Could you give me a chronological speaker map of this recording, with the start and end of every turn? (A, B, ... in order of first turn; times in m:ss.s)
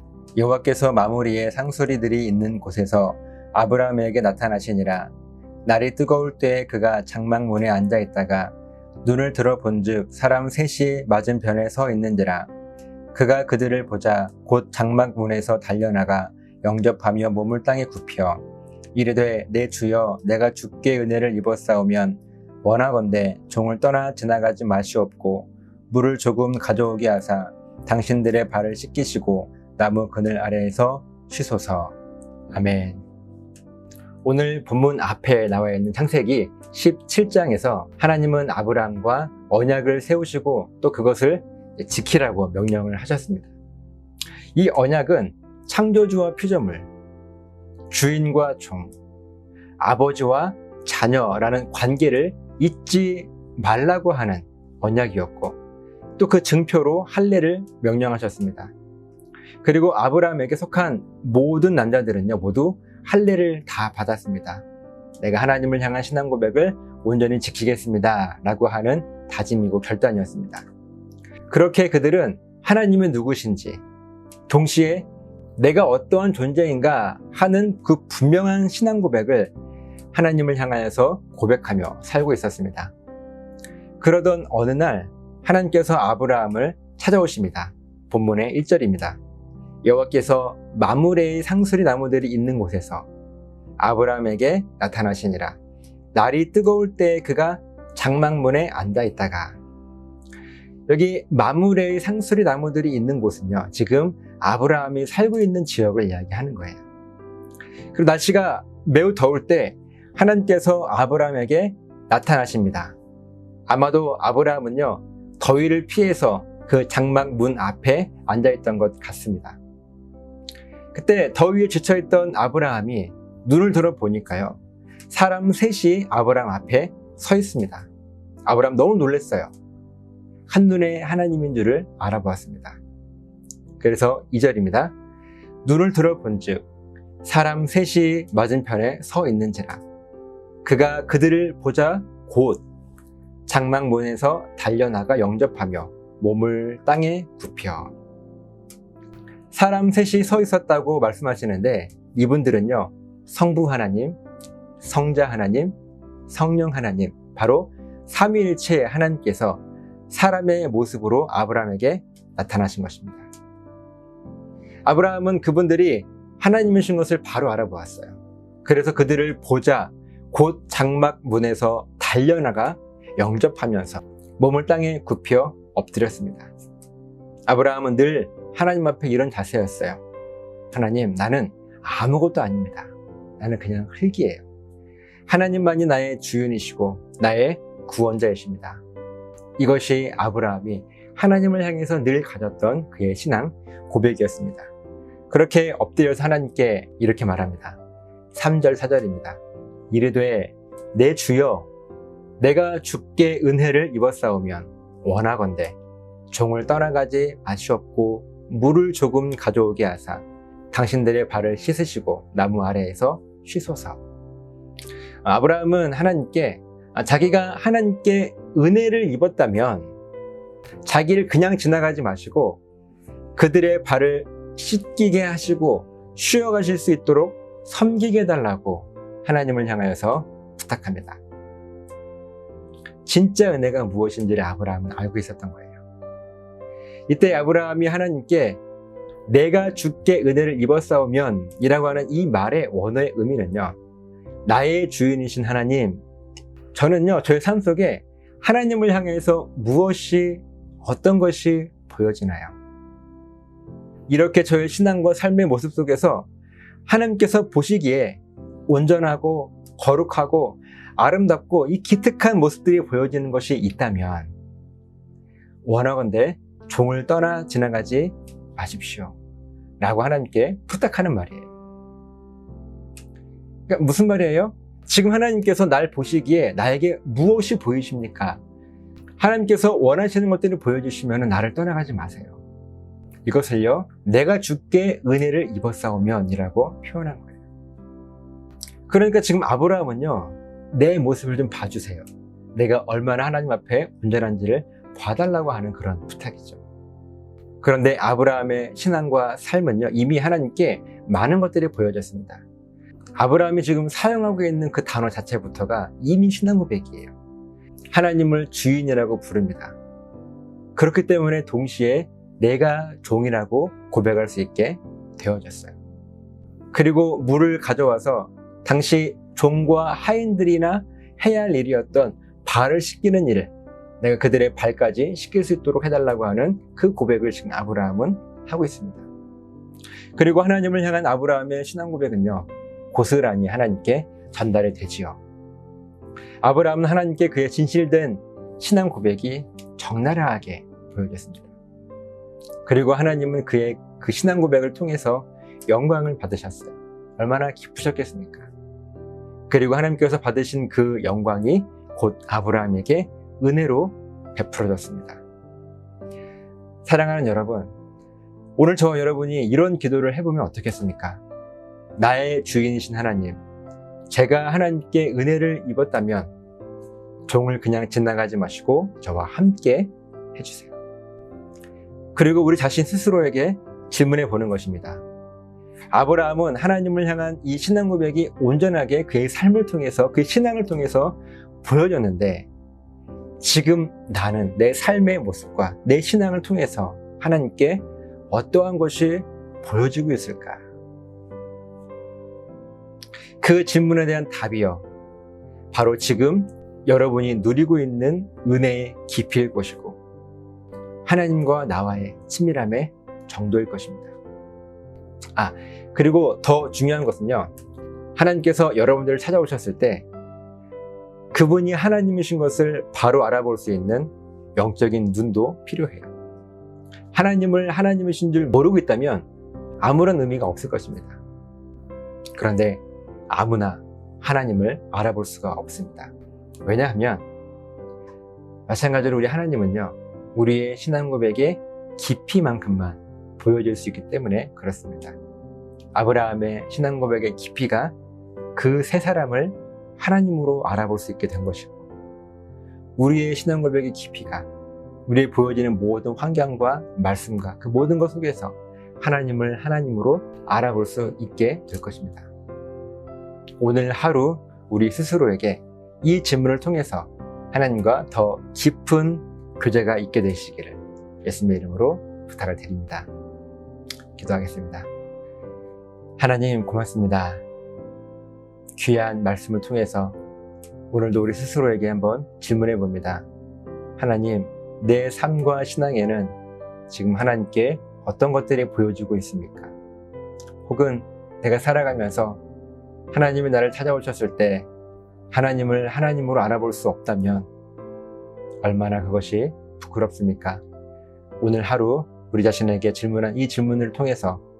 0:00.4-0:05.1 A
0:05.6-0:12.5 A
0:13.1-0:31.9 A
0:32.5-0:33.0 A
0:34.2-0:43.5 A
0:44.5-0:46.9 A
0:47.9-0:48.9 A
0:49.8-0:55.6 A
0:56.2-0:58.7 A
0:59.6-1:04.6 A
1:05.2-1:10.6 A
1:11.5-1:13.8 A
1:14.5-1:15.0 A
1:15.6-1:19.5 A
1:20.1-1:22.9 A
1:24.0-1:29.2 A
1:29.8-1:33.1 A
1:33.8-1:35.6 A
1:36.1-1:39.6 A
1:40.9-1:46.8 A
1:47.9-1:52.9 A
1:53.7-1:59.6 A
2:00.9-2:04.6 A
2:05.1-2:07.9 A
2:08.4-2:09.5 A
2:10.5-2:12.8 A
2:13.8-2:14.9 A
2:15.6-2:16.6 A
2:17.2-2:19.8 A
2:20.6-2:22.6 A
2:23.5-2:27.9 A
2:29.5-2:34.2 A
2:34.8-2:35.8 A
2:36.3-2:43.2 A
2:44.8-2:56.5 A
2:57.5-3:00.0 A
3:00.7-3:04.4 A
3:05.3-3:08.8 A
3:09.6-3:14.7 A
3:15.3-3:17.8 A
3:18.3-3:19.4 A
3:19.9-3:21.7 A
3:22.4-3:25.8 A
3:26.3-3:34.0 A
3:35.2-3:39.9 A
3:40.8-3:42.6 A
3:43.4-3:51.2 A
3:53.0-3:55.8 A
3:57.1-3:58.6 A
3:59.3-4:03.8 A
4:04.4-4:06.0 A
4:06.7-4:12.5 A
4:14.1-4:16.3 A
4:16.8-4:24.3 A
4:25.6-4:29.2 A
4:29.8-4:31.5 A
4:33.7-4:38.4 A
4:39.2-4:42.4 A
4:43.2-4:47.4 A
4:48.9-4:56.6 A
4:57.6-5:02.4 A
5:03.2-5:07.1 A
5:07.9-5:09.8 A
5:10.8-5:15.7 A
5:16.7-5:29.1 A
5:30.2-5:35.2 A
5:36.4-5:41.5 A
5:42.6-5:48.5 A
5:49.5-5:55.2 A
5:56.8-5:57.7 A
5:58.6-6:01.2 A
6:02.0-6:03.4 A
6:04.1-6:06.3 A
6:07.3-6:10.7 A
6:12.1-6:15.0 A
6:15.9-6:22.5 A
6:23.4-6:30.6 A
6:33.4-6:34.8 A
6:35.7-6:40.0 A
6:41.0-6:44.1 A
6:45.4-6:47.5 A
6:48.2-6:50.0 A
6:51.3-6:56.1 A
6:57.1-6:59.3 A
6:59.8-7:01.2 A
7:02.3-7:06.1 A
7:06.6-7:07.2 A
7:08.7-7:15.2 A
7:15.9-7:17.9 A
7:18.5-7:21.9 A
7:23.0-7:24.5 A
7:25.0-7:32.3 A
7:33.6-7:43.1 A
7:44.2-7:44.9 A
7:46.2-7:47.4 A
7:48.8-7:50.2 A
7:50.9-7:53.2 A
7:54.0-7:56.4 A
7:56.9-7:59.7 A
8:00.6-8:02.4 A
8:03.1-8:04.7 A
8:05.3-8:07.5 A
8:08.6-8:10.6 A
8:11.4-8:14.4 A